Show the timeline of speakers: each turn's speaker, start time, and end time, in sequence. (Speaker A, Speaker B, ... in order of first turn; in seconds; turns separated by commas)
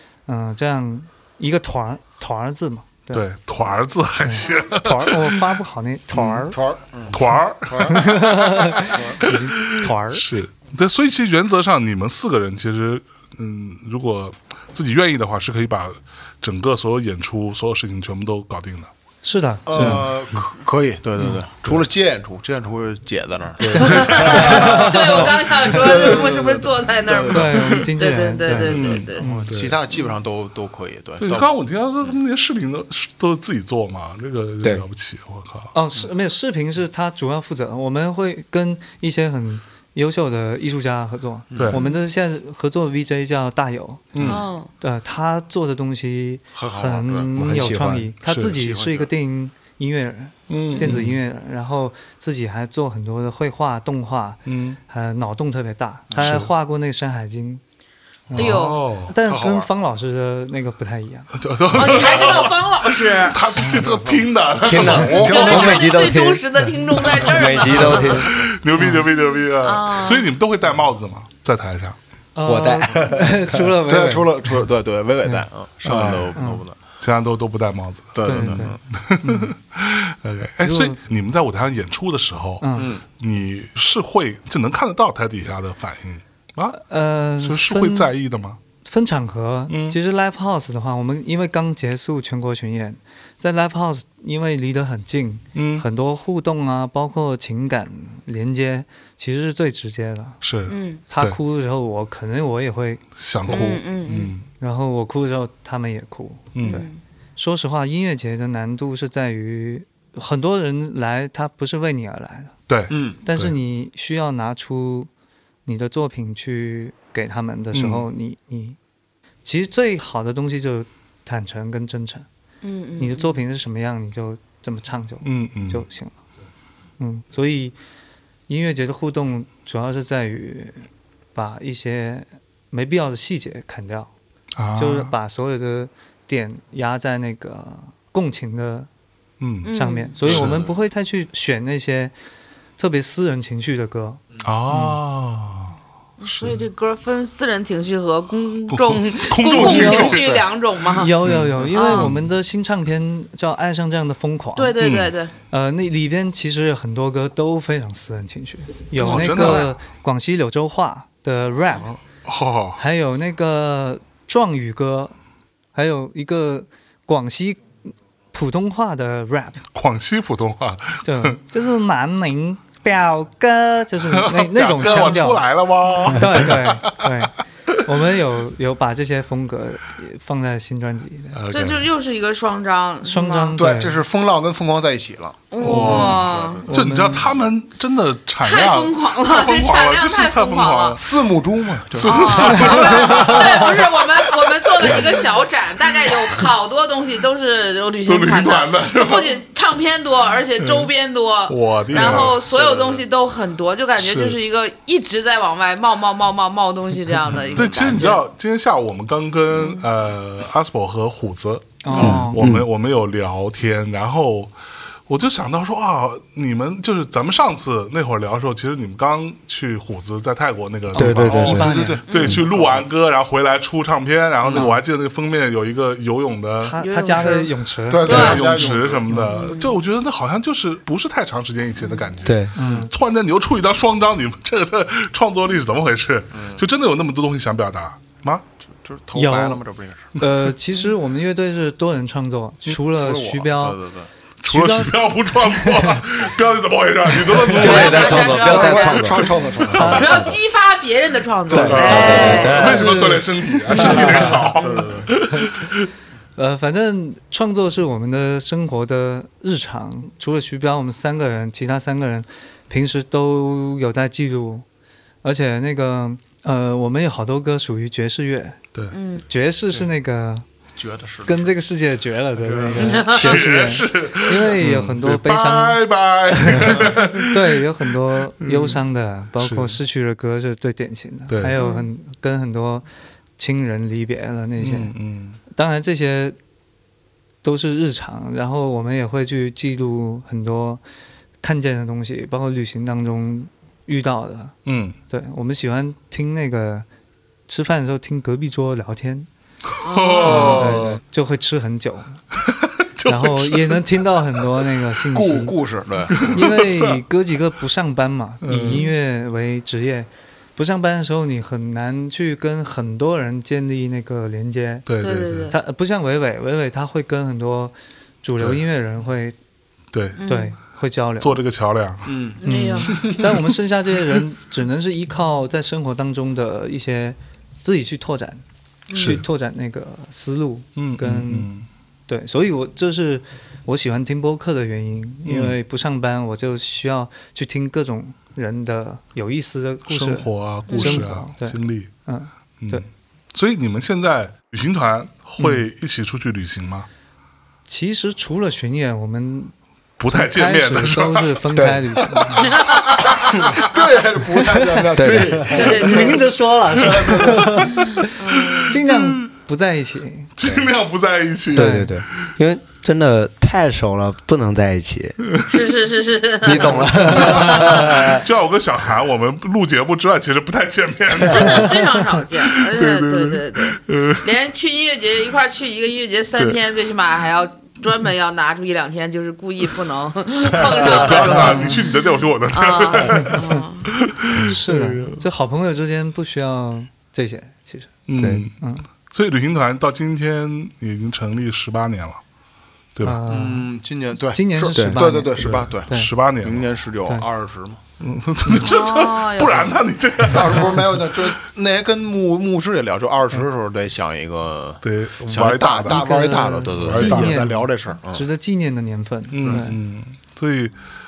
Speaker A: 0.2-3.2, Speaker B: 3.1-5.5, Speaker A: 4.2-6.6, Speaker B: 6.1-6.5, Speaker C: 6.5-8.3, Speaker B: 7.1-18.9, Speaker A: 7.9-10.2, Speaker C: 8.8-9.2, Speaker A: 19.2-20.0, Speaker C: 19.6-27.6, Speaker B: 19.7-20.1, Speaker B: 23.6-24.9, Speaker A: 23.7-25.3, Speaker D: 23.8-29.2, Speaker A: 27.3-29.5, Speaker C: 28.6-31.5, Speaker B: 28.7-29.8, Speaker B: 31.2-35.7, Speaker A: 35.7-57.6, Speaker C: 41.5-41.8, Speaker B: 44.1-44.4, Speaker D: 44.2-44.7, Speaker C: 46.5-47.3, Speaker E: 47.4-48.1, Speaker B: 47.4-47.7, Speaker B: 48.2-48.6, Speaker C: 48.5-49.1, Speaker B: 50.5-51.2, Speaker B: 54.5-54.8, Speaker B: 56.2-56.5, Speaker A: 58.3-61.3, Speaker D: 58.3-58.8, Speaker B: 58.3-59.1, Speaker C: 59.2-59.7, Speaker B: 61.3-65.5, Speaker D: 61.7-63.4, Speaker E: 64.6-66.4, Speaker C: 64.8-66.0, Speaker D: 65.2-68.3, Speaker E: 67.2-68.3, Speaker B: 67.8-72.0, Speaker A: 68.7-69.1, Speaker D: 69.6-70.3, Speaker A: 72.3-74.5, Speaker E: 72.4-73.6, Speaker C: 73.8-76.8, Speaker B: 75.8-76.4, Speaker A: 76.3-76.6, Speaker B: 77.0-86.8, Speaker C: 78.1-78.8, Speaker A: 78.2-79.5, Speaker A: 80.6-81.0, Speaker A: 82.6-82.9, Speaker C: 82.7-83.0, Speaker A: 86.7-88.1, Speaker B: 87.4-88.6, Speaker A: 88.8-100.4, Speaker B: 89.7-90.0, Speaker B: 95.5-95.8, Speaker B: 100.4-101.4, Speaker D: 100.7-101.0, Speaker A: 101.1-103.8, Speaker B: 103.1-104.5, Speaker D: 103.5-104.3, Speaker A: 104.6-112.5, Speaker B: 106.5-106.8, Speaker D: 106.6-107.0, Speaker B: 112.7-113.5, Speaker C: 112.9-113.2, Speaker A: 113.2-115.1, Speaker A: 115.7-118.8, Speaker B: 117.7-118.0, Speaker A: 119.4-122.2, Speaker D: 122.6-123.4, Speaker A: 123.0-126.1, Speaker B: 125.2-125.8, Speaker A: 127.0-127.7, Speaker A: 128.5-134.1, Speaker B: 134.5-135.1, Speaker A: 134.8-138.9, Speaker B: 139.4-139.7, Speaker D: 139.6-140.1, Speaker A: 139.7-142.1, Speaker B: 140.2-140.6, Speaker C: 140.3-140.7, Speaker A: 142.8-144.9, Speaker B: 144.4-146.6, Speaker D: 146.2-151.1, Speaker B: 148.7-150.2, Speaker C: 149.5-150.5, Speaker A: 149.6-150.2, Speaker A: 150.9-154.7, Speaker B: 151.2-152.3, Speaker D: 151.7-152.1, Speaker D: 154.6-155.3, Speaker B: 154.8-155.1, Speaker A: 155.5-161.9, Speaker D: 159.0-159.7, Speaker B: 159.0-159.8, Speaker B: 161.9-162.8, Speaker A: 162.8-165.1, Speaker A: 165.7-167.7, Speaker A: 168.3-169.6, Speaker B: 169.7-171.4, Speaker A: 171.0-175.4, Speaker B: 174.0-177.1, Speaker A: 176.0-181.4, Speaker B: 181.3-181.8, Speaker D: 181.5-183.6, Speaker A: 183.0-184.0, Speaker C: 183.6-186.8, Speaker D: 185.5-186.6, Speaker B: 185.6-191.1, Speaker A: 185.7-186.1, Speaker A: 186.7-187.3, Speaker D: 188.4-191.0, Speaker C: 191.0-193.6, Speaker B: 191.8-195.2, Speaker D: 192.0-208.2, Speaker B: 196.1-196.4, Speaker B: 198.0-199.3, Speaker B: 200.6-200.9, Speaker B: 201.5-202.4, Speaker C: 201.9-203.0, Speaker B: 204.0-204.4, Speaker B: 207.5-214.5, Speaker A: 211.8-212.4, Speaker E: 212.0-212.7, Speaker B: 215.1-226.8, Speaker E: 220.9-221.8, Speaker A: 220.9-222.0, Speaker C: 221.0-222.9, Speaker D: 222.1-222.4, Speaker C: 224.4-224.7, Speaker A: 226.6-229.4, Speaker D: 226.8-227.5, Speaker C: 227.9-229.2, Speaker D: 228.0-228.4, Speaker B: 228.0-238.4, Speaker D: 229.3-229.8, Speaker D: 231.8-232.1, Speaker E: 232.2-232.5, Speaker A: 232.5-232.9, Speaker C: 236.3-236.6, Speaker C: 238.8-240.1, Speaker A: 239.1-239.6, Speaker A: 240.2-243.8, Speaker C: 242.8-244.1, Speaker B: 244.4-248.3, Speaker A: 244.4-246.0, Speaker E: 247.5-250.3, Speaker D: 247.5-252.7, Speaker C: 247.7-250.4, Speaker A: 249.7-250.3, Speaker C: 251.5-252.5, Speaker E: 251.5-253.0, Speaker B: 251.6-255.9, Speaker A: 251.8-254.4, Speaker C: 253.7-255.1, Speaker A: 256.4-264.6, Speaker A: 265.2-268.6, Speaker D: 268.9-269.2, Speaker A: 269.3-270.4, Speaker C: 270.8-271.5, Speaker A: 271.2-282.9, Speaker B: 272.4-277.6, Speaker D: 272.8-273.3, Speaker B: 278.4-278.8, Speaker B: 279.4-279.8, Speaker B: 281.3-281.6, Speaker D: 281.6-281.9, Speaker A: 283.4-284.9, Speaker B: 284.6-285.4, Speaker A: 285.5-286.4, Speaker A: 287.4-290.8, Speaker A: 291.4-294.6, Speaker B: 294.6-295.0, Speaker A: 295.1-296.9, Speaker A: 297.5-299.3, Speaker B: 299.7-301.0, Speaker D: 299.8-300.8, Speaker A: 300.2-302.2, Speaker B: 302.4-303.8, Speaker A: 303.1-305.6, Speaker C: 305.1-306.4, Speaker B: 306.1-307.0, Speaker A: 306.3-314.9, Speaker B: 308.4-308.9, Speaker B: 314.9-315.5, Speaker D: 315.0-315.5, Speaker A: 315.5-319.3, Speaker B: 319.9-320.2, Speaker D: 320.2-320.5, Speaker A: 320.2-321.4, Speaker B: 321.2-322.3, Speaker C: 322.1-323.3, Speaker D: 322.4-323.1, Speaker A: 322.4-328.4, Speaker D: 328.9-329.2, Speaker B: 328.9-329.2, Speaker A: 328.9-331.5, Speaker B: 330.8-331.7, Speaker A: 332.1-342.8, Speaker B: 335.2-335.6, Speaker B: 339.9-341.9, Speaker D: 340.7-341.0, Speaker B: 342.6-346.9, Speaker A: 347.7-349.5, Speaker B: 350.0-351.4, Speaker A: 350.1-352.6, Speaker E: 351.5-351.8, Speaker D: 352.4-353.7, Speaker C: 353.2-357.4, Speaker A: 354.4-354.9, Speaker E: 354.9-355.8, Speaker D: 355.4-356.3, Speaker A: 355.5-360.3, Speaker B: 356.8-357.8, Speaker D: 358.1-358.8, Speaker B: 358.4-359.3, Speaker B: 360.4-362.3, Speaker E: 361.5-365.2, Speaker A: 361.5-361.9, Speaker B: 365.2-365.5, Speaker D: 365.5-368.0, Speaker E: 366.4-368.2, Speaker B: 367.2-374.3, Speaker D: 371.2-382.0, Speaker B: 380.6-385.2, Speaker A: 381.4-381.8, Speaker D: 382.5-383.9, Speaker A: 384.3-388.0, Speaker B: 388.1-392.2, Speaker E: 388.2-388.4, Speaker A: 388.6-388.8, Speaker B: 392.9-393.2, Speaker A: 393.0-393.7, Speaker C: 393.2-397.8, Speaker A: 394.3-396.1, Speaker E: 394.7-395.0, Speaker B: 395.4-396.7, Speaker B: 398.0-401.3, Speaker D: 398.5-399.8, Speaker C: 400.3-408.2, Speaker B: 404.8-407.5, Speaker A: 405.8-409.8, Speaker B: 409.3-410.8